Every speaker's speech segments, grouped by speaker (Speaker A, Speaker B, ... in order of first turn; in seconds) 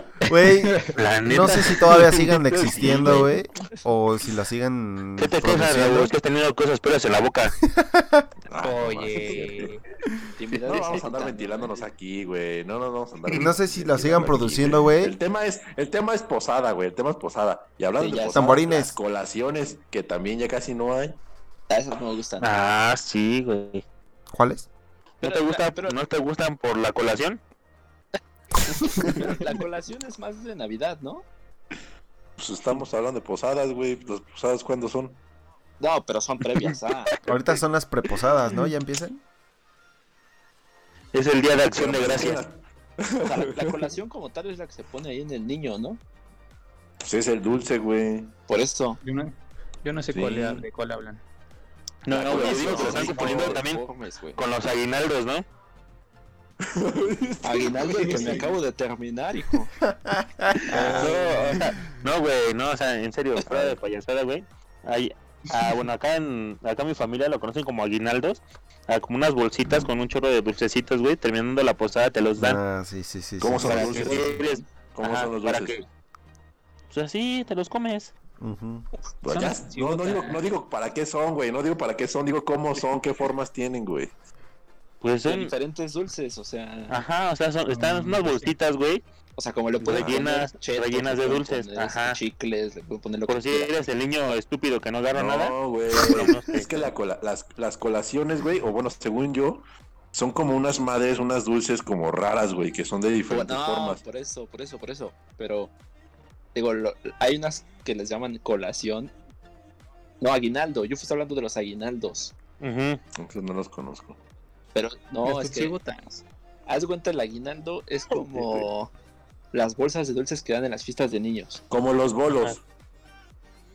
Speaker A: 0.3-6.1, 7.7-8.2, 13.3-15.2, 18.3-18.9, 24.3-24.7, 37.2-39.2, 59.9-61.2, 72.4-74.4, 78.4-78.9
Speaker B: 0.6-0.9, 8.6-9.8, 49.0-51.2, 57.9-58.4, 79.2-80.4, 87.7-88.5, 115.2-116.2
Speaker C: 0.9-3.3, 5.2-7.6, 22.4-23.8, 25.2-27.4, 41.1-42.4, 52.0-53.8, 54.3-55.4, 60.6-72.6, 73.5-75.8, 76.9-78.1, 85.0-85.5, 86.9-89.0, 89.8-92.2, 93.3-96.7, 112.6-113.0, 122.3-122.5
Speaker D: 2.7-3.2, 8.5-9.7, 10.6-21.2, 32.4-35.2, 41.7-43.8, 47.0-48.3, 50.1-50.6, 52.1-53.6, 56.6-58.6, 73.4-74.4, 74.9-75.8, 79.2-84.1, 89.8-90.2, 95.1-104.0, 113.2-114.2, 118.2-118.7, 121.7-122.6
Speaker E: 10.4-11.9, 18.0-18.6, 21.7-22.5, 25.2-26.0, 28.7-31.2, 35.8-37.1, 43.2-46.0, 48.5-49.0, 52.2-54.4, 57.4-59.7, 60.7-61.6, 63.4-63.7, 85.2-87.0, 89.4-93.7, 103.3-105.7, 106.5-109.1, 110.2-112.3, 114.7-115.7, 116.7-118.9, 119.5-121.6